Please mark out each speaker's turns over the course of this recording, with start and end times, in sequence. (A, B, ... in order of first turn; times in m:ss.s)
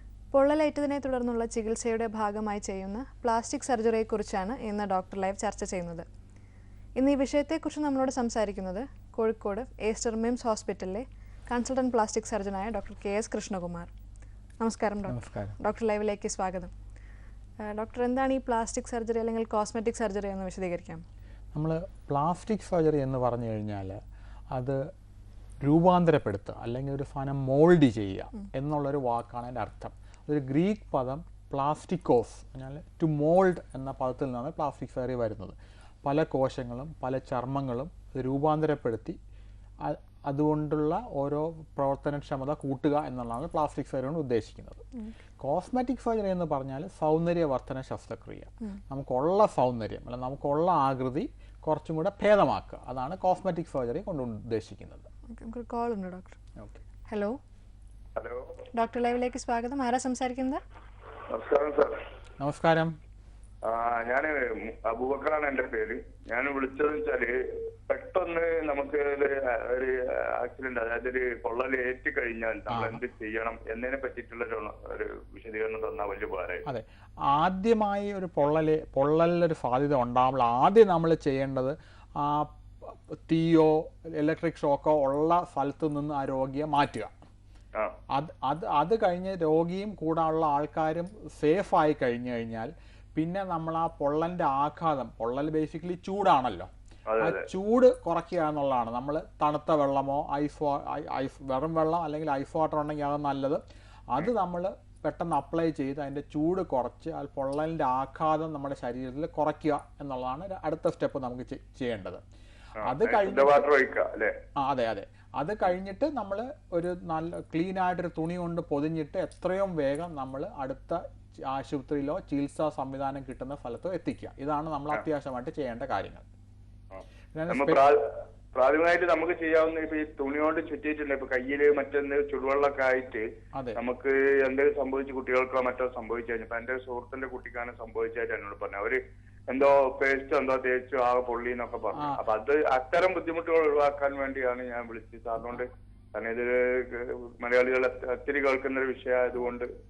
0:00.3-0:06.0 A
0:07.0-0:13.9 A
0:14.6-0:16.7 A
0:15.1-0:15.6 B
0:17.6-0:21.0 A
0:21.5-0:24.0 B
0:24.5-0:24.8 B
0:25.6-0:39.2 B
0:39.8-0:44.8 B
0:45.4-0:55.1 B
0:55.3-0:56.4 A
0:57.1-0:57.4 A
0:58.2-0:58.4 C
0:58.8-1:00.6 A
1:01.3-1:02.0 C
1:02.4-1:02.9 B
1:03.6-1:07.3 C
1:07.9-1:16.6 C
1:12.7-1:13.0 B
1:16.7-1:27.1 B
1:28.1-1:52.2 B
1:37.1-1:37.4 C
1:52.8-1:54.3 C
1:52.8-1:53.6 B
1:54.6-2:06.2 B
2:06.9-2:08.0 C
2:07.3-2:07.8 B
2:08.5-2:13.2 C
2:13.8-2:29.7 C